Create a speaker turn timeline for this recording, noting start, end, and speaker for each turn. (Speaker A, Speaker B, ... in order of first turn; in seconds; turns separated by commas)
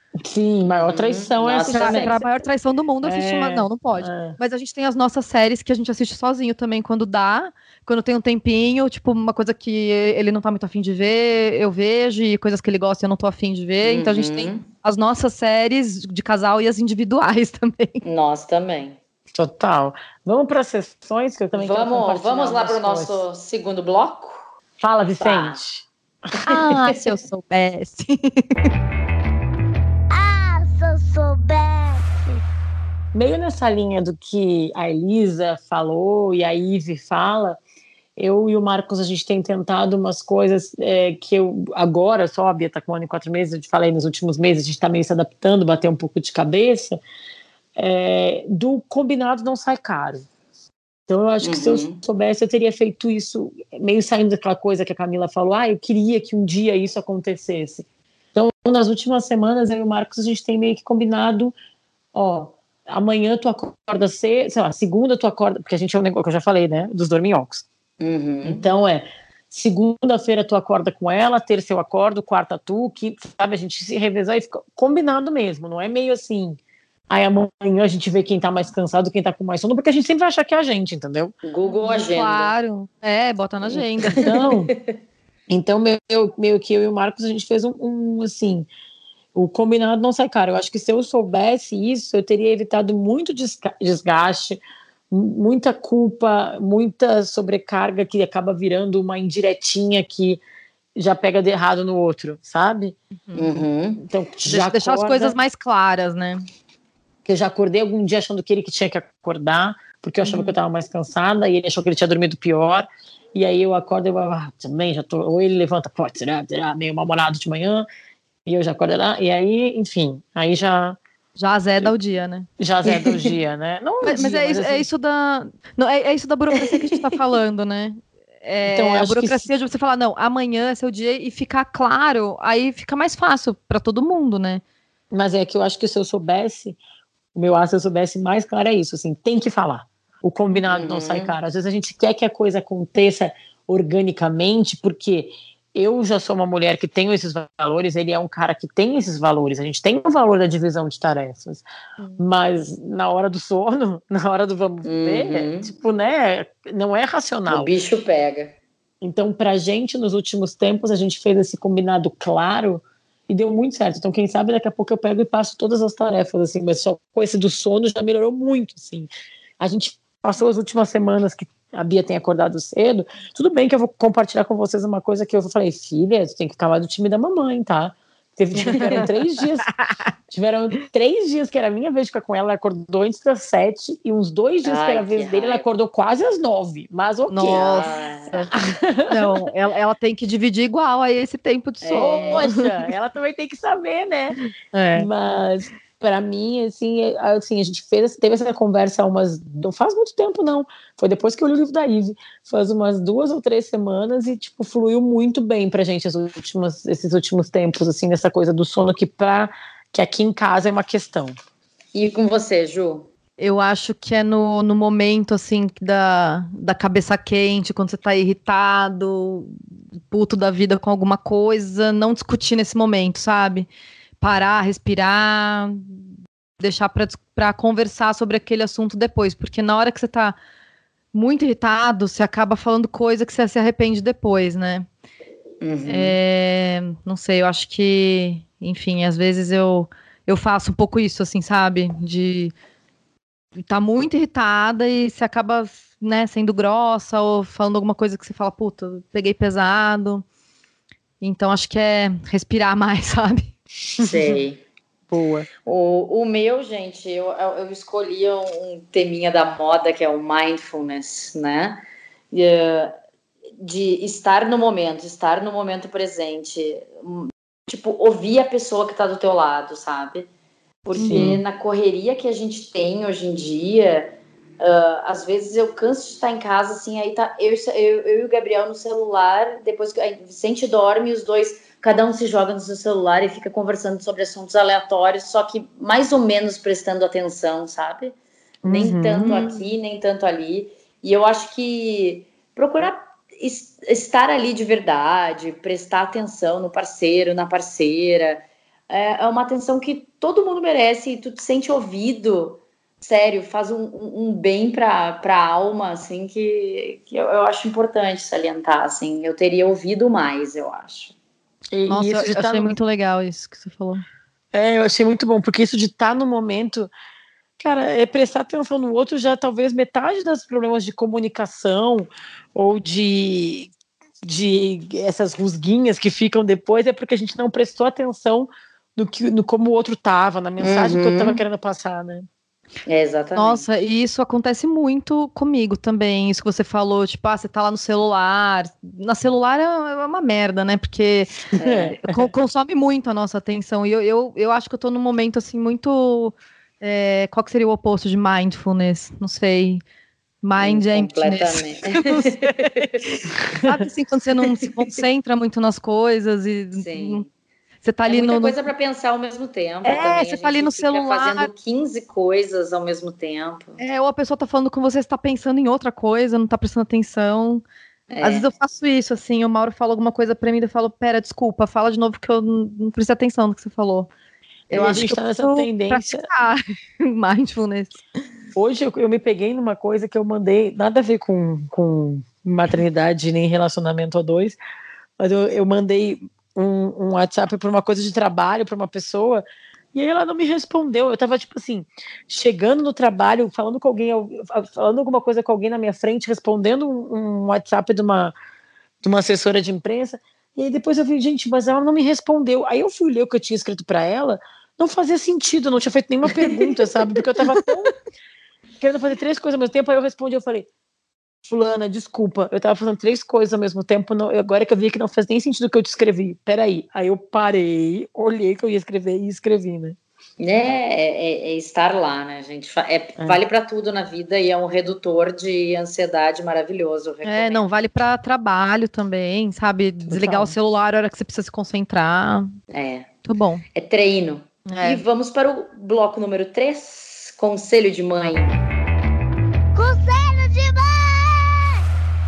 Speaker A: 0.2-2.3, Speaker B: 0.7-2.1, Speaker C: 1.7-18.0, Speaker A: 3.0-4.4, Speaker B: 13.8-14.7, Speaker B: 18.0-19.0, Speaker A: 19.4-23.2, Speaker B: 21.5-24.5, Speaker A: 24.8-25.9, Speaker B: 25.2-25.6, Speaker C: 26.4-28.7, Speaker B: 26.4-27.0, Speaker D: 30.1-32.0, Speaker A: 33.1-37.6, Speaker A: 38.2-47.0, Speaker A: 47.8-50.3, Speaker A: 51.1-61.5, Speaker B: 51.4-52.0, Speaker A: 62.1-67.6, Speaker B: 68.0-68.6, Speaker A: 68.4-76.6, Speaker A: 77.1-81.4, Speaker B: 81.4-82.5, Speaker C: 81.7-84.3, Speaker B: 83.7-84.9, Speaker A: 84.2-84.7, Speaker A: 85.5-88.7, Speaker A: 89.3-94.6, Speaker A: 95.1-100.4, Speaker A: 101.0-103.0, Speaker C: 103.3-103.6, Speaker B: 103.3-104.0, Speaker A: 104.0-105.4, Speaker C: 104.5-106.4, Speaker A: 107.3-117.9, Speaker C: 110.2-110.5, Speaker A: 118.5-121.0, Speaker C: 121.4-122.5, Speaker A: 122.6-124.8, Speaker C: 124.0-134.6, Speaker A: 128.7-129.4, Speaker A: 135.1-136.8, Speaker A: 137.3-151.6, Speaker B: 140.7-141.3, Speaker A: 152.2-157.7, Speaker B: 154.8-155.7, Speaker B: 157.5-158.6, Speaker A: 159.0-179.7, Speaker B: 178.6-179.0, Speaker C: 178.7-179.1, Speaker A: 180.3-187.8, Speaker B: 184.6-185.7, Speaker C: 187.3-188.5, Speaker B: 187.5-188.5, Speaker A: 188.5-189.4, Speaker C: 189.1-192.6, Speaker B: 191.8-192.5, Speaker A: 191.9-194.4, Speaker C: 194.7-195.1, Speaker A: 194.9-211.3, Speaker B: 211.9-213.1, Speaker C: 213.4-219.6, Speaker C: 220.1-223.7, Speaker C: 224.2-226.0, Speaker C: 226.6-230.4, Speaker C: 231.1-234.9, Speaker B: 235.6-236.2, Speaker C: 235.9-242.5, Speaker C: 243.6-250.2, Speaker C: 251.2-253.5, Speaker B: 254.0-254.6, Speaker A: 255.1-255.5, Speaker B: 255.6-262.9, Speaker B: 263.6-270.3, Speaker B: 270.9-311.1, Speaker C: 271.0-271.3, Speaker A: 271.0-271.4, Speaker A: 288.6-289.6, Speaker A: 311.7-312.7, Speaker C: 311.9-314.0, Speaker A: 314.5-316.9, Speaker A: 317.6-323.7, Speaker A: 324.3-332.3, Speaker B: 330.6-331.4, Speaker B: 332.9-333.6, Speaker C: 333.4-341.3, Speaker A: 341.5-342.2, Speaker B: 341.6-341.9, Speaker C: 342.0-349.8, Speaker C: 350.4-352.9, Speaker B: 350.6-352.9, Speaker C: 353.6-357.2, Speaker B: 356.7-357.3, Speaker C: 357.8-358.6, Speaker B: 358.1-363.8, Speaker C: 359.8-361.5, Speaker C: 363.8-367.6, Speaker B: 368.1-368.5, Speaker C: 368.2-374.1, Speaker C: 374.7-378.0, Speaker A: 374.7-376.3, Speaker A: 378.6-384.6, Speaker A: 385.2-398.3, Speaker A: 399.0-407.9, Speaker A: 408.8-410.7, Speaker A: 411.4-420.0, Speaker B: 420.4-427.6, Speaker C: 427.2-432.5, Speaker A: 430.1-430.6, Speaker B: 432.7-433.1, Speaker C: 433.2-433.6, Speaker B: 433.7-438.6, Speaker C: 434.7-435.0, Speaker D: 439.7-441.8